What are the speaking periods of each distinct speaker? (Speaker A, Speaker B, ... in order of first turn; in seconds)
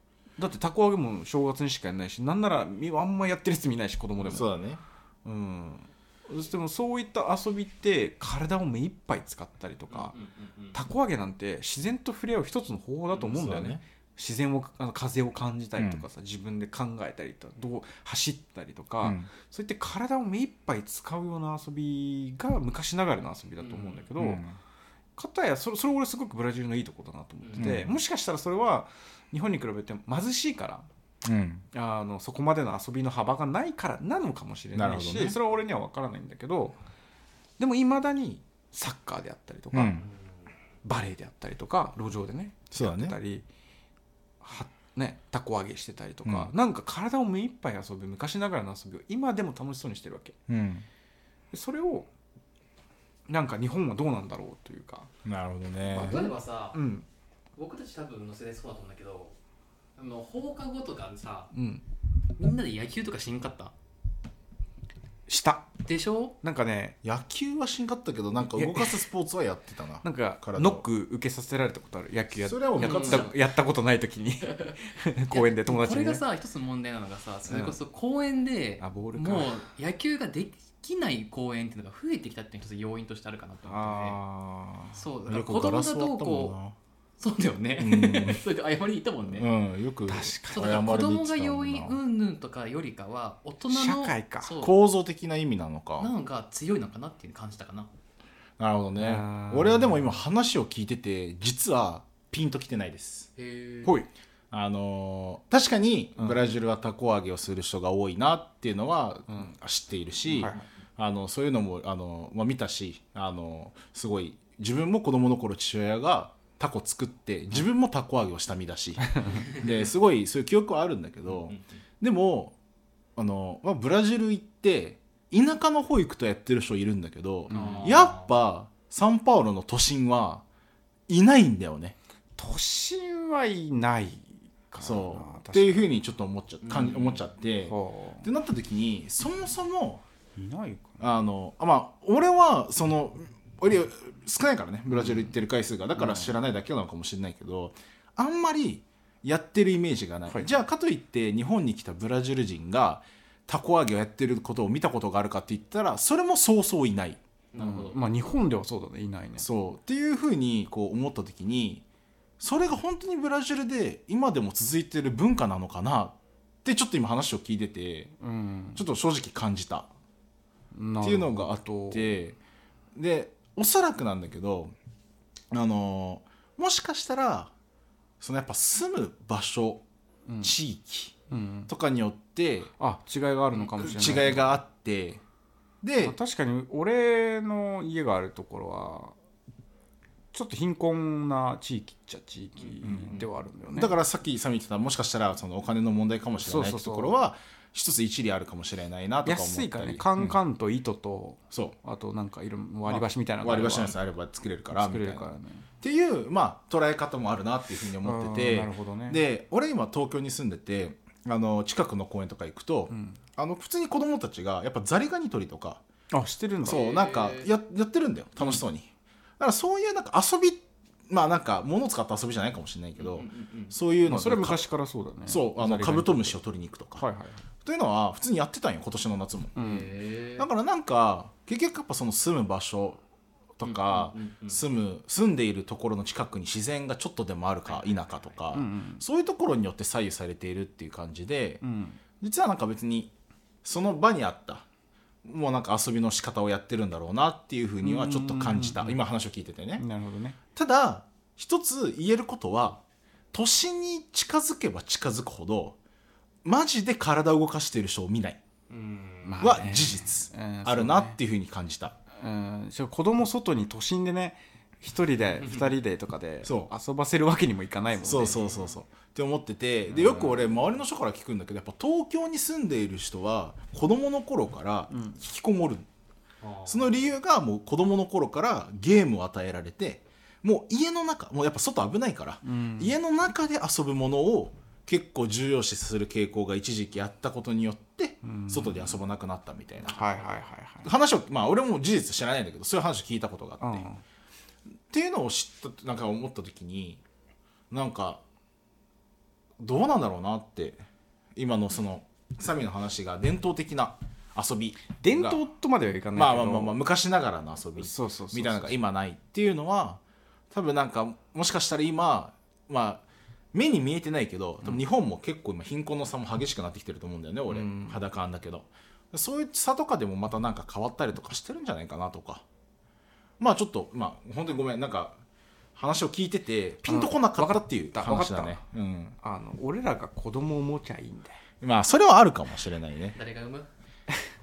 Speaker A: 0.4-4.5, 5.2-10.1, 10.7-24.4, 25.2-30.9, 31.7-36.8, 37.6-40.0, 40.8-43.5, 44.4-50.4, 51.5-52.1, 53.3-55.1, 55.9-57.0, 61.5-61.8, 65.3-65.7, 66.4-67.0, 68.4-69.0, 70.0-76.2, 77.5-77.8, 78.8-79.6, 83.7-85.0, 90.1-90.9, 93.7-94.5, 99.0-100.2, 103.8-104.1, 110.3-110.6, 119.1-119.4, 127.5-127.9, 132.4-135.9, 137.6-138.3, 140.3-141.0, 144.9-145.3, 146.0-146.3, 157.6-159.4, 168.2-168.8, 170.7-172.1, 180.3-180.5, 181.3-181.7, 182.8-184.5, 186.0-189.1, 190.3-194.0, 196.4-197.2, 199.2-203.9, 204.7-205.7, 208.0-209.2, 212.9-213.2, 216.1-216.8, 224.1-226.4, 227.0-227.4, 229.6-229.9, 238.5-239.0, 241.6-242.0, 247.8-249.0, 249.8-250.4, 259.2-261.2, 262.1-268.4, 274.9-275.2, 282.4-282.9, 288.2-289.0, 289.9-290.9, 293.6-294.0, 305.0-306.8, 307.8-308.8, 317.5-318.0, 326.9-328.6, 329.2-331.4
Speaker B: 4.2-4.8, 13.3-13.8, 15.8-16.0, 19.0-19.3, 24.2-24.6, 27.6-28.0, 31.2-31.6, 34.7-35.4, 39.7-40.1, 42.7-43.1, 46.2-46.5, 50.5-50.9, 55.2-56.3, 67.0-70.8, 72.4-73.3, 85.3-86.8, 87.8-88.4, 89.3-92.0, 94.6-96.1, 98.6-103.3, 104.5-122.5, 123.2-130.4, 131.1-131.9, 134.8-140.0, 141.0-157.2, 159.4-161.8, 162.4-168.1, 168.8-169.9, 171.0-172.4, 172.9-174.7, 175.5-177.5, 178.2-179.8, 180.4-181.2, 181.7-182.7, 183.8-185.2, 185.8-186.2, 192.8-200.4, 202.9-215.8, 216.6-224.6, 225.3-227.0, 227.6-229.5, 230.4-233.0, 233.6-241.6, 242.2-243.1, 243.6-244.6, 245.2-249.8, 250.5-252.8, 253.3-255.8, 256.4-258.4, 259.4-262.0, 266.4-266.7, 268.0-275.9, 276.6-290.0, 290.8-293.9, 294.9-297.0, 297.7-298.2, 299.6-300.8, 301.3-305.4, 306.1-322.4, 323.4-325.2, 325.7-329.1, 331.6-333.1
Speaker C: 9.9-10.8, 23.6-24.1, 27.4-27.7, 40.0-40.3, 55.9-56.8, 57.5-59.4, 60.0-61.5, 62.4-63.7, 65.8-66.3, 72.8-73.3, 74.4-74.8, 75.3-84.2, 84.9-86.5, 87.2-89.5, 90.5-94.8, 96.0-97.9, 103.4-104.0, 127.5-128.3, 136.6-137.2, 157.5-158.0, 183.5-184.3, 216.6-217.5, 223.0-223.7, 229.6-230.5, 233.6-234.6, 237.7-238.3, 258.7-259.5, 265.4-265.7, 268.1-268.7, 276.4-277.1, 289.9-290.4, 333.1-333.7